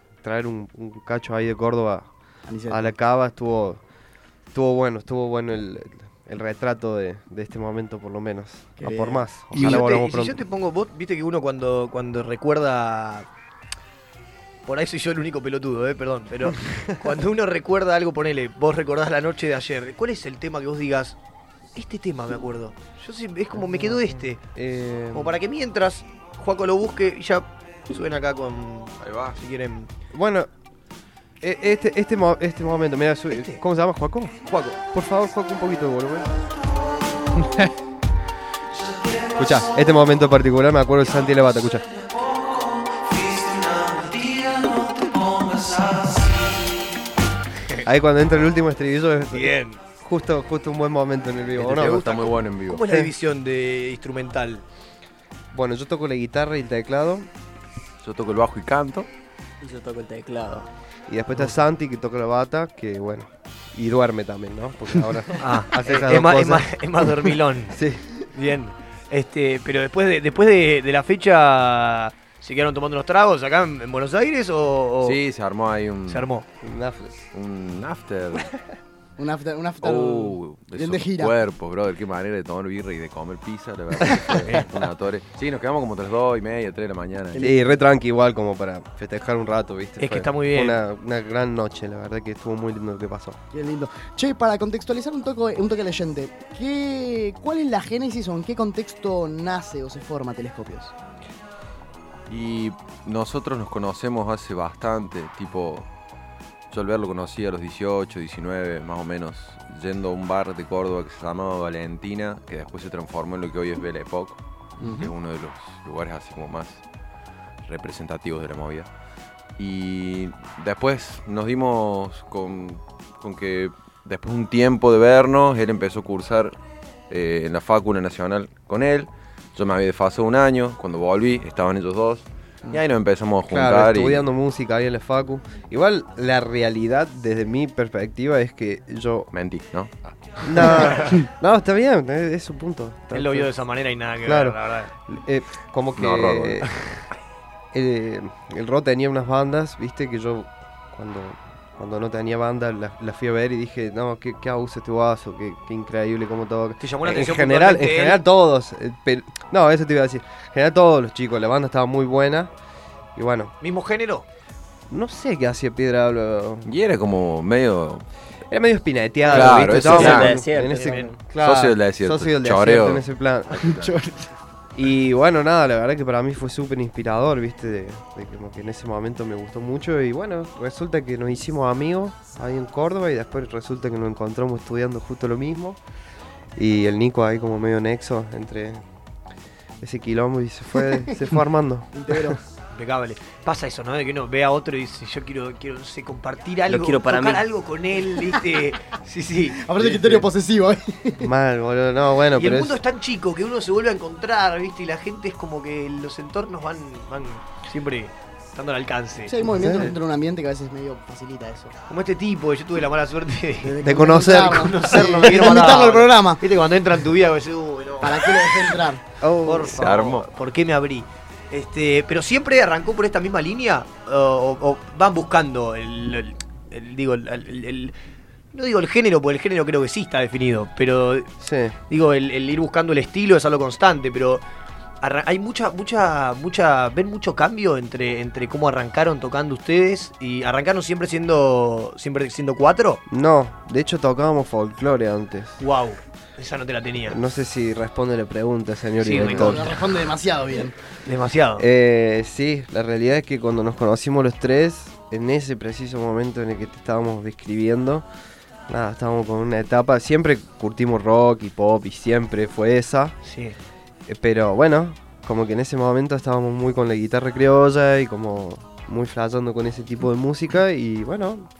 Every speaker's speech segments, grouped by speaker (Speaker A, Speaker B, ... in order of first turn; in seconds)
Speaker A: 0.2-2.1, 2.7-3.8, 4.5-10.4, 23.6-25.4, 30.1-30.5, 31.4-36.3, 39.4-41.9, 47.9-52.3, 52.8-53.1, 55.5-57.3, 61.1-67.1, 67.7-68.0, 76.6-77.2, 87.4-93.4, 133.5-139.3, 140.4-143.5, 144.2-146.8, 147.7-162.5, 163.2-163.6, 164.9-166.7, 168.5-173.9, 174.8-185.8, 186.6-188.8, 189.8-192.3, 201.2-202.8, 209.5-209.9, 213.9-215.6, 219.2-219.8, 231.4-231.8, 243.1-245.6, 247.1-249.7, 251.6-258.1, 258.7-263.2, 264.1-271.5
Speaker B: 2.5-3.0, 8.8-9.3, 79.2-81.3, 93.5-100.9, 114.8-115.1, 191.9-192.4, 199.6-201.3, 209.3-211.7, 213.6-216.4, 218.0-219.0, 249.2-250.8
Speaker C: 9.5-13.3, 14.7-21.2, 21.8-24.4, 25.1-29.9, 33.3-33.6, 49.3-49.8, 51.5-54.6, 65.4-75.2, 76.1-76.5, 84.4-84.7, 90.0-90.8, 140.8-141.1, 143.1-144.9, 156.8-158.2, 163.6-164.2, 169.4-171.1, 192.7-200.3, 202.3-209.4, 211.9-218.8, 219.4-227.9, 228.5-231.3, 231.9-234.4, 235.0-243.0, 245.6-247.2, 249.0-249.8, 251.1-251.7, 263.2-263.6
Speaker D: 29.0-29.4, 51.5-52.9, 58.0-59.1, 75.0-76.3, 77.3-78.5, 79.8-87.5, 102.3-105.9, 106.7-116.8, 117.7-118.9, 119.6-126.5, 127.1-134.3, 139.3-140.6, 146.0-147.0, 166.6-168.1, 169.3-170.4, 171.3-173.9, 219.7-220.3
Speaker E: 38.7-39.7, 42.0-46.8
Speaker F: 59.6-60.7, 169.3-171.2, 196.7-197.5